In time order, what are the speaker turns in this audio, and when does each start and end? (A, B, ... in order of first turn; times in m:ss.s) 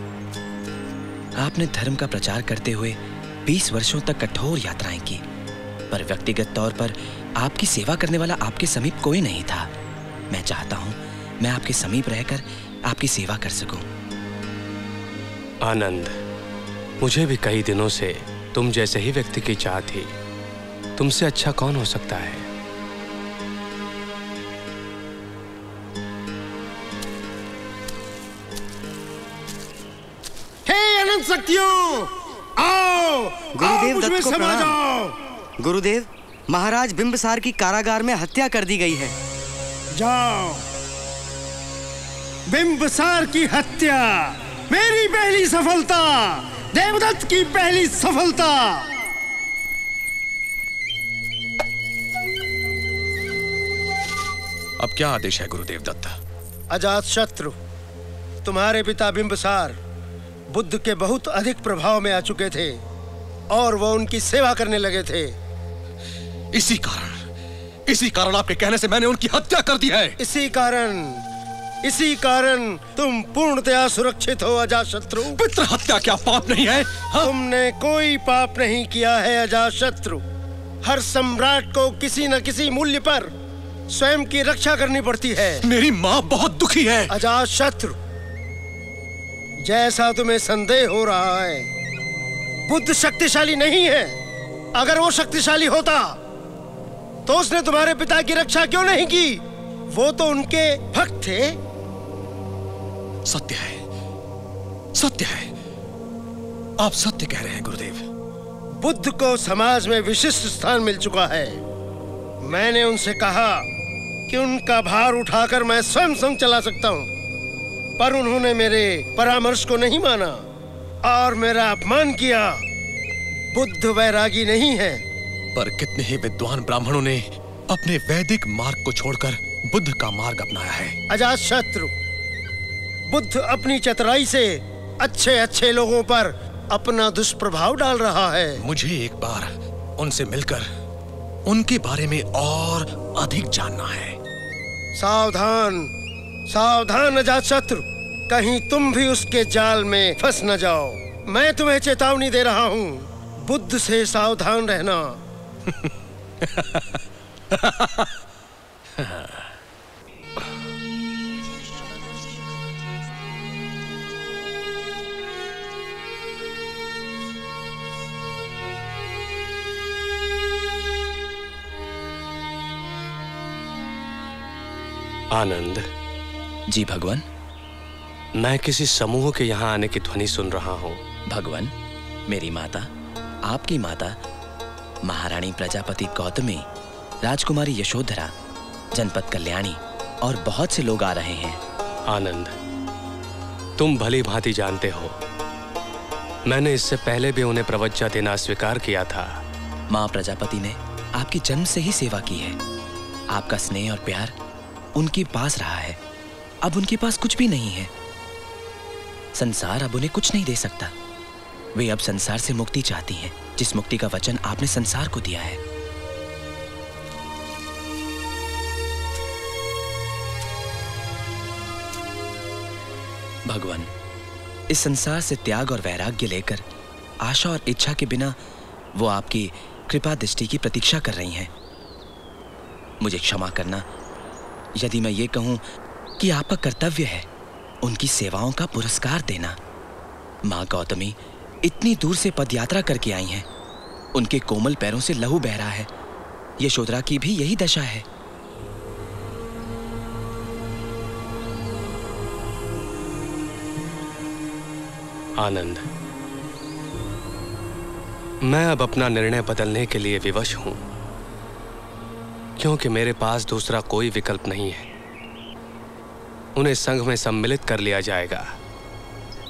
0:01.4-0:05.2 A
0:05.9-0:09.7 A
0:10.3-0:13.8 A
0:15.6-0:16.2 B
0:17.0-0:20.1 B
0:21.0-0:22.5 B
0:30.7-0:35.2 C
0:33.5-0:34.8 D
0:35.6-0:39.2 D
0:39.9-0:40.6 C
0:42.5-0:48.9 C
0:54.8-0:56.1 E
0:56.7-0:57.5 C
0:58.4-0:59.8 C
1:00.5-1:02.8 C
1:03.5-1:05.3 C
1:06.6-1:07.1 E
1:07.9-1:10.1 E
1:10.2-1:11.2 C
1:11.8-1:15.4 C
1:15.5-1:17.0 E
1:17.2-1:20.2 C
1:20.8-1:23.3 C
1:23.9-1:25.7 C
1:25.7-1:27.0 E
1:27.1-1:28.0 C
1:29.6-1:31.7 C
1:32.7-1:34.2 C
1:34.8-1:36.2 C
1:37.3-1:39.4 C
1:39.9-1:41.6 C
1:43.3-1:43.8 E
1:45.0-1:45.5 E
1:46.8-1:48.0 E
1:48.8-1:51.6 C
1:52.4-1:53.6 C
1:54.3-1:57.1 C
1:58.0-2:00.4 C
2:01.0-2:02.6 C
2:03.5-2:05.0 C
2:05.6-2:07.2 E
2:07.7-2:10.9 E
2:11.1-2:11.9 C
2:13.1-2:18.6 C
2:18.7-2:20.6 E
2:21.5-2:24.2 E
2:25.0-2:25.9 C
2:26.5-2:35.2 C
2:55.3-2:55.9 B
2:56.7-2:57.2 A
2:58.4-3:01.0 B
3:01.3-3:01.7 A
3:02.3-3:02.9 A
3:03.4-3:04.2 A
3:05.0-3:06.7 A
3:07.2-3:08.3 A
3:08.9-3:11.6 A
3:12.1-3:12.6 B
3:13.8-3:15.2 B
3:16.5-3:19.3 B
3:19.9-3:22.6 A
3:23.3-3:24.4 A
3:25.0-3:26.0 A
3:26.6-3:27.9 A
3:29.4-3:30.9 A
3:31.8-3:35.6 A
3:43.5-3:43.9 A
3:44.7-3:46.6 A
3:47.2-3:48.4 A
3:49.0-3:51.5 A
3:53.0-3:53.8 A
3:54.8-3:55.6 A
3:56.2-3:57.3 A
3:57.8-3:59.6 A
4:00.5-4:03.5 A
4:04.2-4:05.9 A
4:06.6-4:08.0 A
4:15.4-4:15.9 B
4:18.4-4:20.8 B
4:22.6-4:24.9 B
4:26.6-4:28.5 B